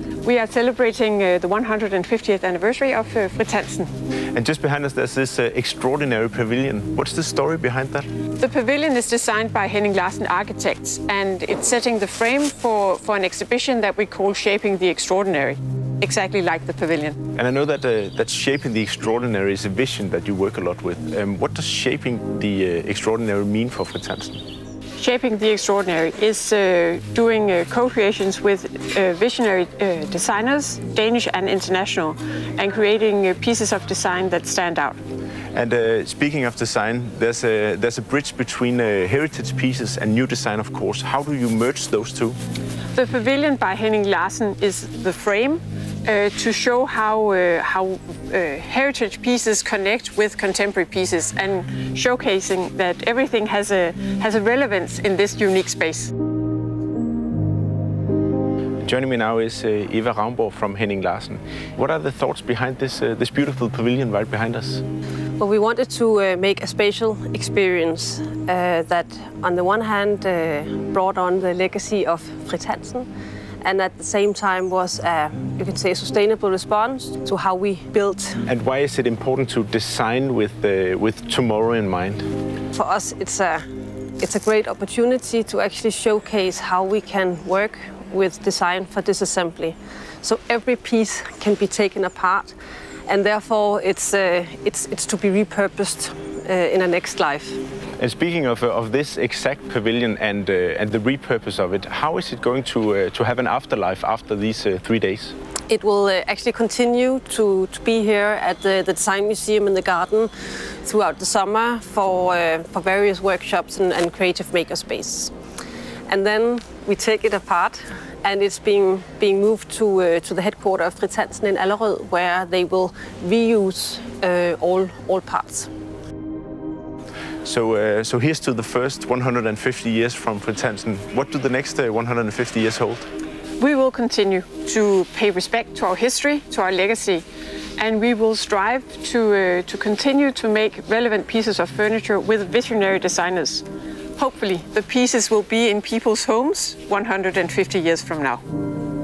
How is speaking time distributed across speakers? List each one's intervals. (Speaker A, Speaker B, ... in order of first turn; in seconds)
Speaker A: 0.2-3.9, 8.4-17.2, 25.0-35.0, 42.9-56.1, 133.6-137.2, 137.8-143.7, 144.2-148.4
Speaker B: 4.3-8.1, 17.4-24.4, 35.5-42.4, 58.8-64.8, 78.5-82.3, 98.0-105.3, 127.5-133.1
Speaker C: 65.4-73.1, 73.6-78.4, 82.7-83.6, 84.2-92.6, 93.1-97.6, 105.7-110.3, 110.8-115.3, 116.1-125.7